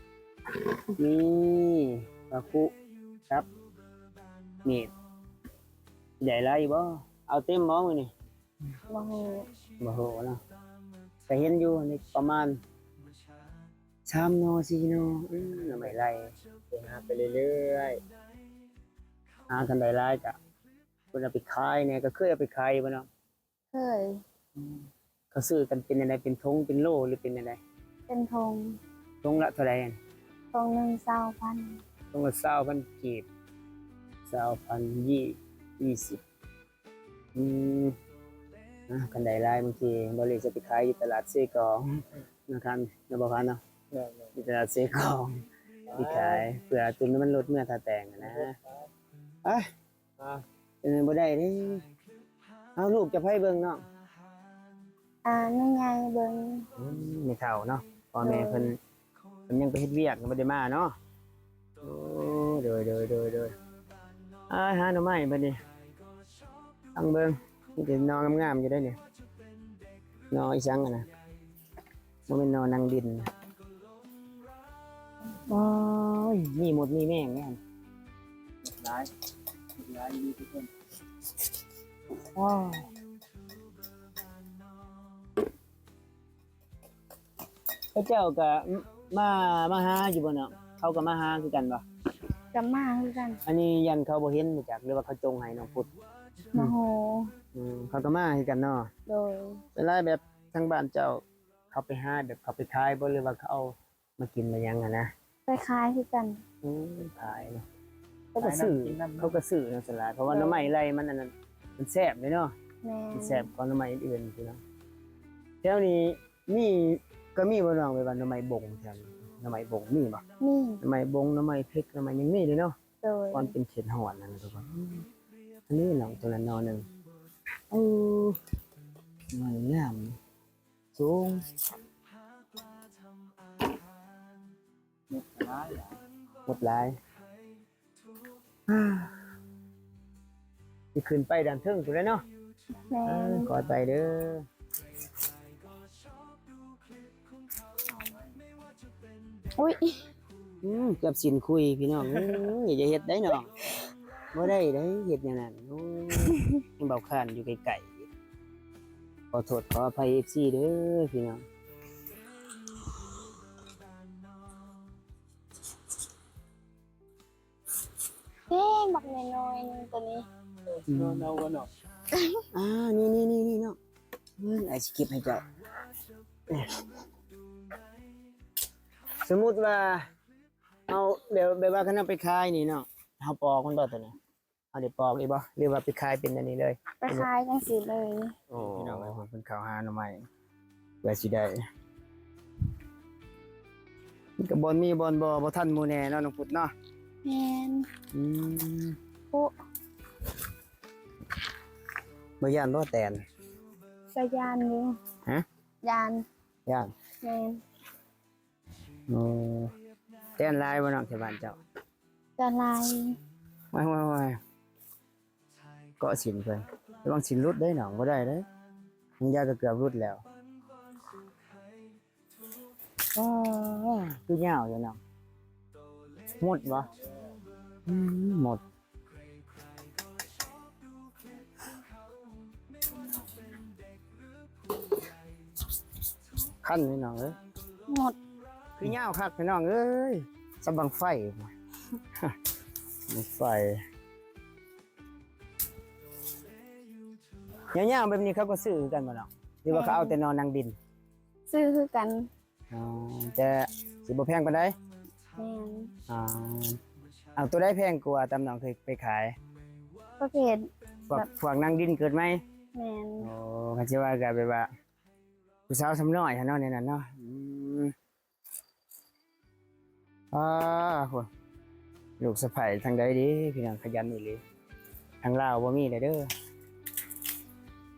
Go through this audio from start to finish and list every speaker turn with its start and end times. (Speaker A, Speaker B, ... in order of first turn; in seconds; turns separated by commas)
Speaker A: 0.9-2.7, Speaker A: 4.6-4.9, Speaker A: 6.2-8.1, Speaker B: 8.9-9.5, Speaker A: 9.8-10.4, Speaker A: 11.3-12.6, Speaker A: 14.1-16.3, Speaker C: 16.7-18.0, Speaker A: 19.5-20.4, Speaker A: 21.1-23.1, Speaker B: 23.7-24.2, Speaker A: 25.3-27.6, Speaker B: 28.1-28.8, Speaker A: 29.2-30.0, Speaker B: 30.5-31.8, Speaker A: 32.1-33.3, Speaker A: 34.3-36.2, Speaker A: 37.3-38.0, Speaker A: 38.9-43.6, Speaker C: 43.9-44.3, Speaker A: 44.3-48.5, Speaker C: 45.9-46.4, Speaker C: 48.2-48.9, Speaker A: 50.8-51.9, Speaker A: 52.8-53.8, Speaker B: 55.2-56.7, Speaker A: 56.8-58.8, Speaker B: 58.2-58.7, Speaker A: 59.5-61.0, Speaker A: 61.8-63.5, Speaker A: 64.5-65.6, Speaker A: 66.9-69.0, Speaker A: 70.3-71.1, Speaker A: 72.3-73.3, Speaker A: 75.4-77.6, Speaker C: 78.6-79.1, Speaker C: 79.8-80.7, Speaker A: 82.3-82.9, Speaker A: 87.9-91.8, Speaker B: 92.5-93.4, Speaker A: 93.5-95.9, Speaker B: 96.5-97.3, Speaker A: 97.5-98.9, Speaker B: 99.1-99.6, Speaker A: 99.7-105.1, Speaker B: 105.5-106.4, Speaker A: 106.6-107.6, Speaker C: 108.4-109.3, Speaker A: 108.4-112.5, Speaker B: 110.3-110.7, Speaker B: 112.8-113.5, Speaker A: 113.1-114.6, Speaker A: 115.6-120.2, Speaker B: 120.4-120.8, Speaker A: 120.8-122.8, Speaker B: 123.0-123.5, Speaker A: 123.3-125.1, Speaker A: 125.7-126.9, Speaker A: 127.7-128.4, Speaker A: 129.3-130.2, Speaker A: 130.9-131.5, Speaker A: 136.4-137.0, Speaker A: 138.7-139.2, Speaker A: 140.9-142.2, Speaker B: 142.9-143.5, Speaker A: 143.1-144.5, Speaker B: 149.6-150.1, Speaker A: 150.6-153.5, Speaker A: 154.3-158.1, Speaker A: 159.3-161.4, Speaker B: 168.5-170.2, Speaker A: 170.9-171.3, Speaker C: 170.9-171.7, Speaker B: 172.1-172.4, Speaker A: 172.5-173.8, Speaker A: 174.4-175.4, Speaker A: 176.5-176.8, Speaker A: 179.2-180.1, Speaker A: 180.9-184.1, Speaker A: 184.7-187.3, Speaker B: 187.0-188.3, Speaker A: 188.5-190.2, Speaker C: 188.6-189.1, Speaker A: 191.0-191.5, Speaker A: 194.4-196.7, Speaker B: 197.2-197.9, Speaker A: 198.1-199.0, Speaker A: 202.4-203.2, Speaker B: 204.1-205.0, Speaker B: 205.8-206.2, Speaker B: 207.2-207.6, Speaker A: 209.1-209.7, Speaker A: 210.4-211.6, Speaker B: 212.4-213.2, Speaker A: 213.7-214.4, Speaker A: 216.0-218.4, Speaker A: 219.2-220.2, Speaker A: 223.1-225.0, Speaker A: 226.4-226.9, Speaker A: 227.9-228.6, Speaker A: 236.6-237.3, Speaker B: 237.9-238.2, Speaker A: 238.8-241.5, Speaker A: 243.1-243.8, Speaker A: 247.7-250.8, Speaker B: 249.7-250.2, Speaker B: 251.5-252.3, Speaker A: 252.7-254.7, Speaker B: 255.3-255.9, Speaker A: 256.1-256.8, Speaker A: 257.4-259.3, Speaker B: 260.2-261.2, Speaker A: 261.1-262.4, Speaker B: 262.7-263.3, Speaker A: 263.2-264.7, Speaker A: 265.7-267.9, Speaker A: 270.3-271.3, Speaker A: 272.2-274.4, Speaker A: 275.2-276.3